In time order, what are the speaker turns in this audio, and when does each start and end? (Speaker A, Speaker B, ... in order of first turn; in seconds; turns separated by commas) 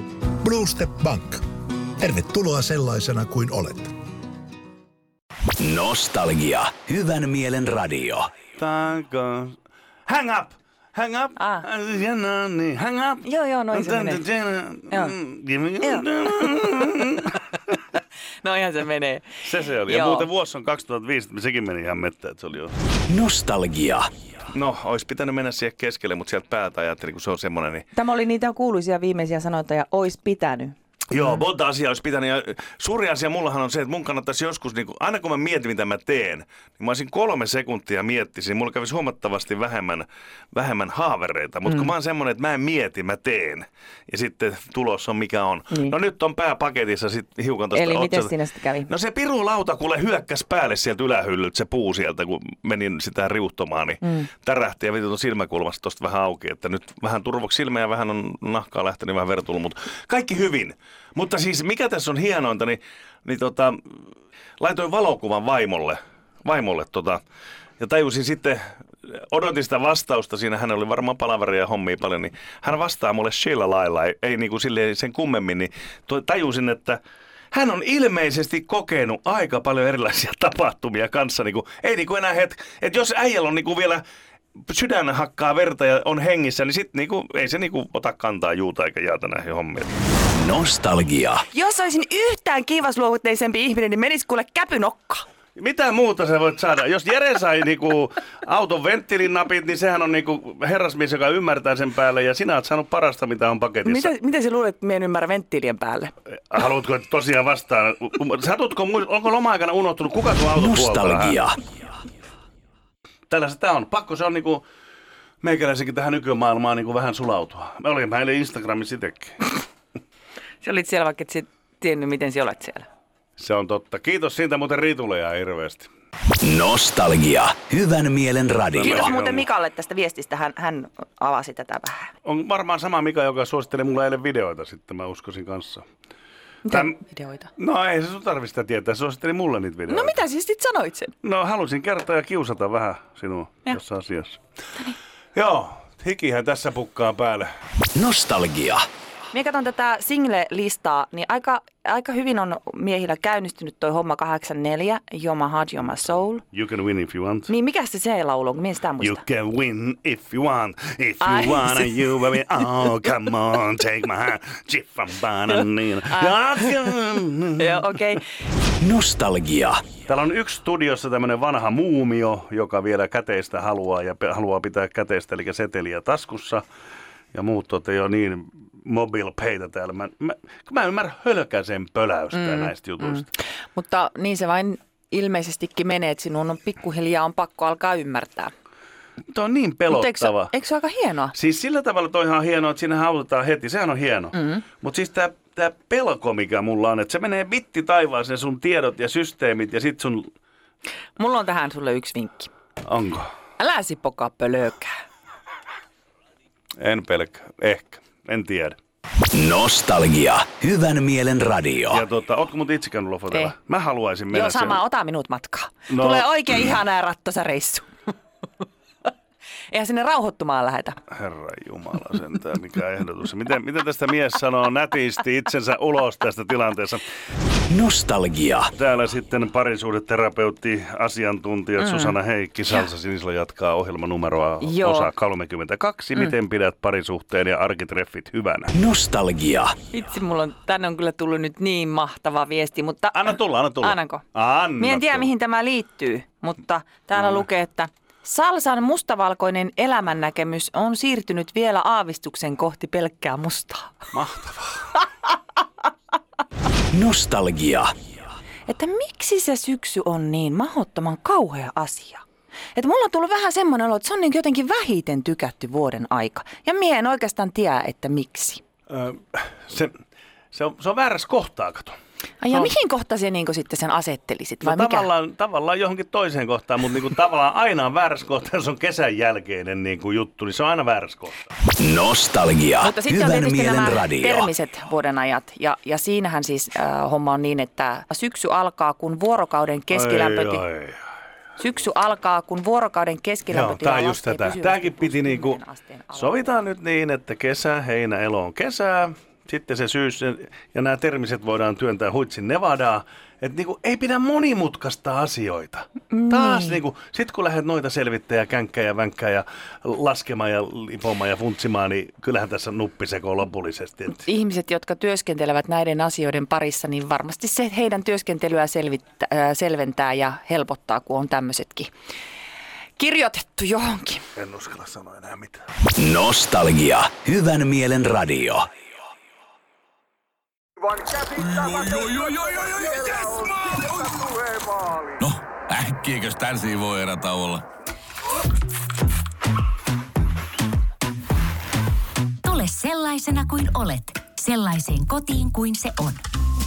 Speaker A: 0.4-1.4, Speaker A: 2.0-4.0, Speaker B: 5.6-8.3, Speaker C: 8.6-17.3, Speaker D: 11.4-11.7, Speaker D: 13.2-14.2, Speaker D: 15.8-16.6, Speaker D: 17.9-20.3, Speaker C: 19.4-22.7, Speaker B: 23.1-24.1, Speaker C: 24.5-27.9, Speaker D: 27.9-30.8, Speaker C: 31.1-48.3, Speaker D: 47.7-48.9, Speaker C: 48.9-64.0, Speaker C: 64.6-67.2, Speaker C: 67.8-77.0, Speaker C: 77.5-84.0, Speaker C: 84.7-89.9, Speaker B: 90.4-91.2, Speaker D: 91.5-95.2, Speaker C: 95.6-104.1, Speaker D: 103.8-106.1, Speaker C: 106.5-111.5, Speaker B: 110.8-111.3, Speaker C: 113.3-114.6, Speaker C: 115.4-119.4, Speaker D: 120.6-122.9, Speaker C: 123.4-125.9, Speaker B: 126.4-129.1, Speaker C: 128.7-129.4, Speaker D: 128.8-132.1, Speaker C: 132.2-135.8, Speaker D: 136.7-137.5, Speaker C: 137.6-140.2, Speaker D: 139.9-141.1, Speaker C: 141.2-144.4, Speaker C: 145.3-147.5, Speaker B: 147.9-148.8, Speaker D: 149.3-156.4, Speaker C: 156.5-157.5, Speaker D: 157.5-159.2, Speaker C: 159.0-167.9, Speaker D: 161.2-161.9, Speaker D: 166.1-166.5, Speaker D: 167.6-168.2, Speaker B: 168.8-169.8, Speaker C: 170.1-176.6, Speaker C: 177.3-183.2, Speaker D: 182.3-183.2, Speaker D: 183.8-188.5, Speaker C: 189.3-190.5, Speaker D: 189.9-191.3, Speaker C: 191.3-200.3, Speaker D: 201.2-202.5, Speaker C: 202.8-203.3, Speaker D: 203.6-204.9, Speaker C: 206.8-208.8, Speaker B: 209.3-211.7, Speaker C: 211.8-214.8, Speaker D: 214.3-217.9, Speaker C: 215.9-216.3, Speaker D: 219.7-221.0, Speaker C: 221.2-227.1, Speaker B: 227.7-228.6, Speaker C: 228.7-238.8, Speaker D: 231.8-232.2, Speaker D: 234.6-235.1, Speaker B: 238.9-239.6, Speaker D: 239.9-244.2, Speaker C: 243.2-245.3, Speaker D: 244.8-254.1, Speaker C: 254.1-254.8, Speaker B: 256.9-257.8, Speaker D: 258.7-262.2, Speaker D: 262.8-268.6, Speaker C: 268.9-269.9, Speaker C: 270.5-271.9, Speaker D: 272.4-275.1, Speaker C: 274.6-281.4, Speaker B: 281.8-282.7, Speaker D: 282.8-290.6, Speaker A: 283.5-284.0, Speaker C: 289.9-291.0, Speaker D: 291.6-296.4, Speaker C: 293.5-295.6, Speaker C: 296.1-314.2, Speaker D: 306.1-306.8, Speaker D: 314.2-321.9, Speaker D: 323.0-324.3, Speaker C: 324.4-325.7, Speaker B: 326.0-328.6, Speaker C: 331.0-335.2, Speaker E: 331.9-332.1, Speaker E: 335.2-337.6, Speaker F: 342.4-346.2